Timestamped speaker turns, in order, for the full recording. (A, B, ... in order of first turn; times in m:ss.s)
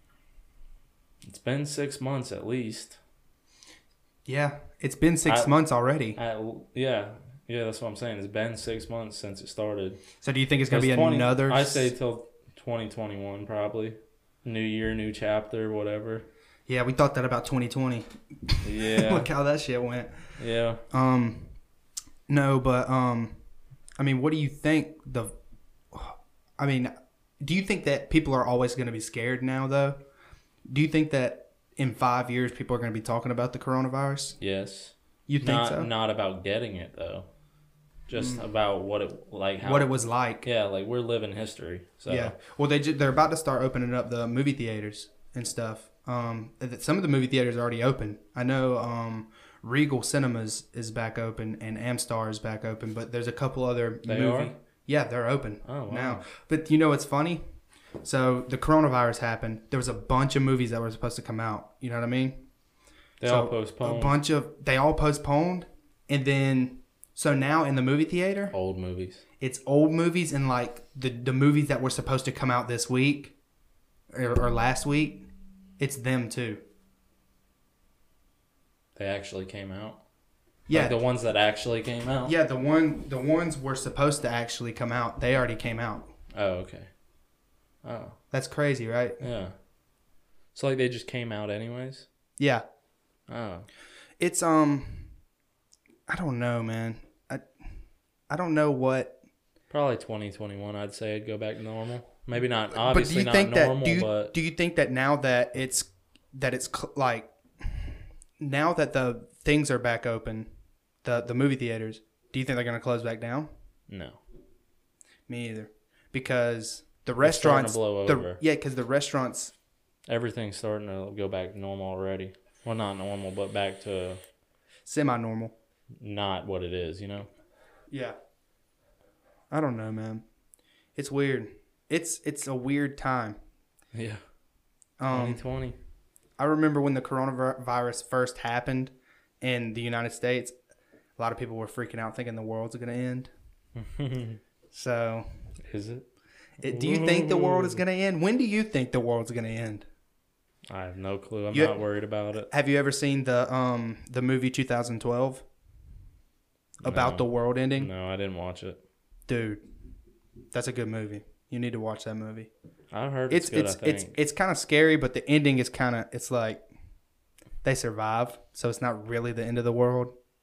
0:01.2-0:03.0 A
0:04.2-0:06.2 B
0:05.2-0:05.6 A
0:06.2-0:10.0 A
0:10.2-0:11.9 B
0:10.7-0:16.3 A
0:16.7-0:20.2 B
0:18.6-0:19.3 A
0:20.4-0:20.8 A
0:20.9-0:21.5 B
0:22.3-0:23.4 B
0:24.0-0:25.3 B
0:25.9-0:30.0 B
0:30.7-0:34.4 B
0:34.4-0:37.3 A
0:35.3-0:35.9 B
0:38.1-0:39.9 A
0:38.1-0:38.4 B
0:39.6-0:40.4 B
0:40.4-0:42.4 A
0:42.1-0:57.4 B
0:54.0-0:54.5 A
0:55.6-0:56.2 A
0:58.0-1:02.4 B
1:03.2-1:04.2 A
1:03.2-1:08.5 B
1:08.5-1:09.2 A
1:09.4-1:13.3 B
1:14.1-1:15.2 B
1:15.8-1:16.6 B
1:19.0-1:20.0 A
1:20.7-1:21.0 B
1:20.7-1:22.3 A
1:22.2-1:26.1 B
1:26.3-1:26.9 A
1:27.8-1:28.2 A
1:28.3-1:29.2 B
1:29.2-1:29.5 A
1:30.5-1:32.1 A
1:32.4-1:32.6 B
1:33.3-1:33.7 A
1:34.2-1:35.1 B
1:36.1-1:37.4 B
1:38.3-1:39.2 B
1:39.7-1:44.3 A
1:42.7-1:50.5 B
1:51.0-1:53.5 B
1:53.9-1:54.2 A
1:55.3-1:59.5 B
1:57.2-1:58.4 A
2:00.1-2:04.2 A
2:04.8-2:05.5 B
2:06.0-2:07.3 A
2:07.9-2:08.2 B
2:09.5-2:10.2 B
2:11.0-2:13.4 B
2:13.9-2:14.2 A
2:15.0-2:15.4 B
2:15.1-2:15.8 A
2:16.4-2:20.5 B
2:21.2-2:23.3 B
2:23.8-2:24.4 A
2:24.7-2:25.3 B
2:25.7-2:26.1 A
2:26.6-2:29.8 B
2:26.6-2:27.8 A
2:30.7-2:32.5 A
2:31.5-2:31.8 B
2:32.5-2:35.4 B
2:36.8-2:37.9 B
2:36.8-2:38.8 A
2:39.3-2:39.6 B
2:40.5-2:42.5 B
2:42.9-2:44.2 A
2:43.3-2:46.6 B
2:47.6-2:50.1 B